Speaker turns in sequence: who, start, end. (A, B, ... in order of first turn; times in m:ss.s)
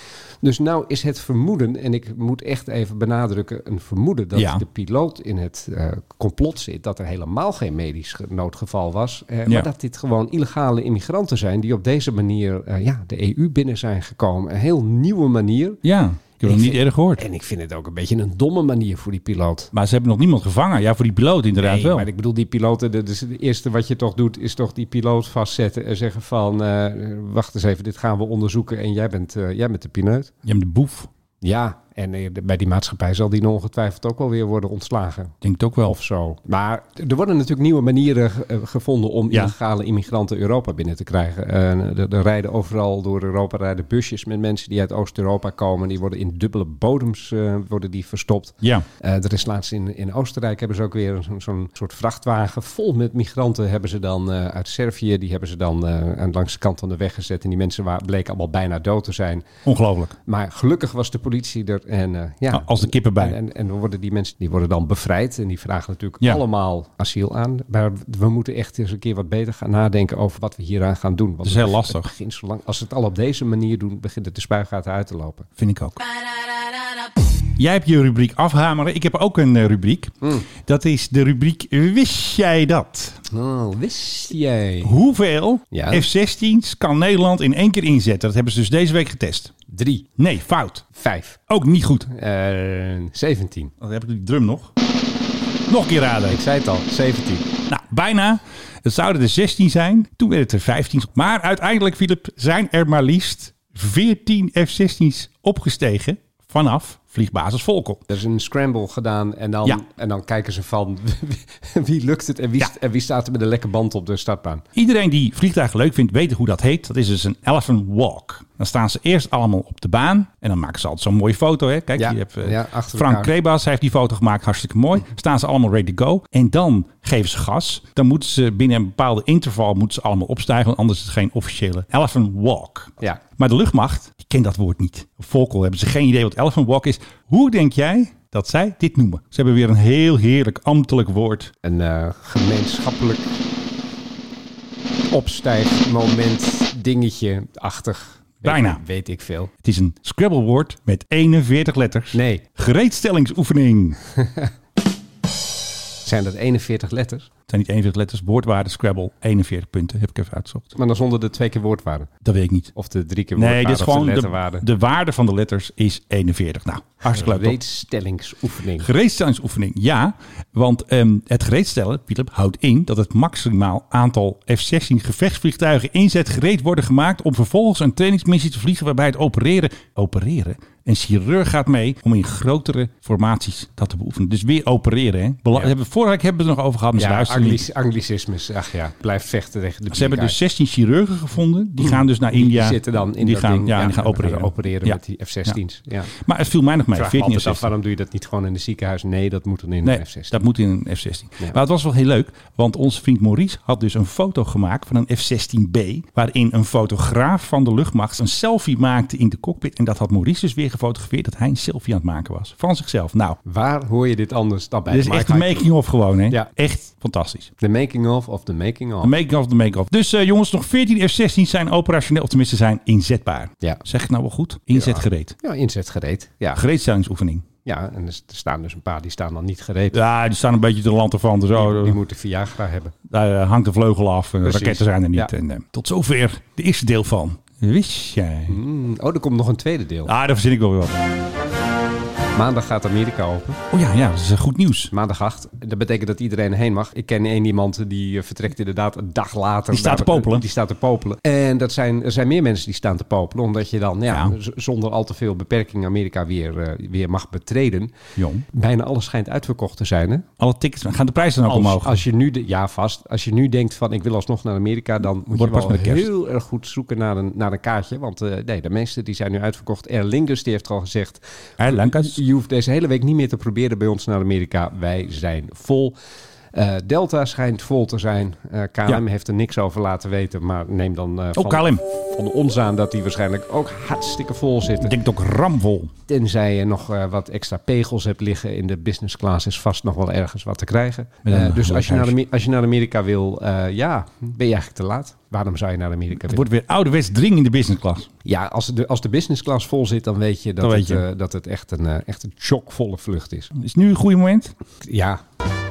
0:00.4-0:15.8 A
0:04.4-0:04.6 B
0:15.8-0:17.2 B
0:16.4-0:19.7 A
0:19.7-0:22.1 B
0:21.6-0:30.3 A
0:30.4-0:31.1 B
0:31.4-0:59.5 A
0:35.4-0:36.0 B
0:59.6-1:00.2 B
1:00.2-1:15.5 A
1:02.5-1:03.4 B
1:11.4-1:12.1 B
1:15.6-1:16.0 B
1:17.6-1:23.2 B
1:23.3-1:24.9 A
1:24.8-1:29.5 B
1:25.7-1:26.1 A
1:29.7-1:30.1 A
1:30.2-1:30.8 B
1:30.9-1:31.4 A
1:31.5-1:32.1 B
1:32.1-1:33.7 A
1:33.8-1:34.7 B
1:35.7-1:36.4 B
1:36.3-1:37.5 A
1:37.7-1:48.0 B
1:48.1-1:54.6 A
1:54.8-2:21.5 B
2:02.0-2:03.3 A
2:21.6-2:23.4 A
2:25.1-2:29.5 A
2:28.4-2:28.8 B
2:29.6-2:34.0 B
2:32.1-2:32.4 A
2:34.2-2:34.5 A
2:36.0-2:37.3 A
2:37.5-2:40.7 B
2:40.8-2:42.1 A
2:42.2-2:42.7 B
2:42.8-2:44.6 A
2:43.4-2:47.6 B
2:47.0-2:48.9 A
2:48.8-3:07.6 B
3:07.0-3:10.4 A
3:09.9-3:15.6 B
3:11.8-3:16.1 A
3:16.1-3:17.7 B
3:16.9-3:20.4 A
3:19.8-3:33.4 B
3:33.4-3:35.7 A
3:34.9-3:37.5 B
3:37.6-3:39.1 A
3:39.0-3:45.3 B
3:44.7-3:46.6 A
3:46.5-3:47.5 B
3:47.6-3:50.0 A
3:49.9-3:52.0 B
3:51.5-3:52.9 A
3:53.1-3:58.6 B
3:54.4-3:55.3 A
3:58.5-4:00.1 A
4:00.1-4:01.0 B
4:02.4-4:03.6 A
4:03.7-4:04.9 B
4:04.9-4:17.9 A
4:09.7-4:10.5 B
4:14.1-4:14.4 B
4:18.2-4:18.4 B
4:18.5-4:20.3 A
4:20.4-4:22.0 B
4:21.5-4:36.0 A
4:25.2-4:26.1 B
4:31.6-4:32.2 B
4:36.5-4:45.0 A
4:41.4-4:41.8 B
4:44.8-4:45.9 B
4:46.1-4:56.4 A
4:51.2-4:52.2 B
4:56.2-4:58.1 B
4:58.2-5:03.5 A
5:00.6-5:01.0 B
5:03.6-5:04.5 B
5:04.8-5:05.2 A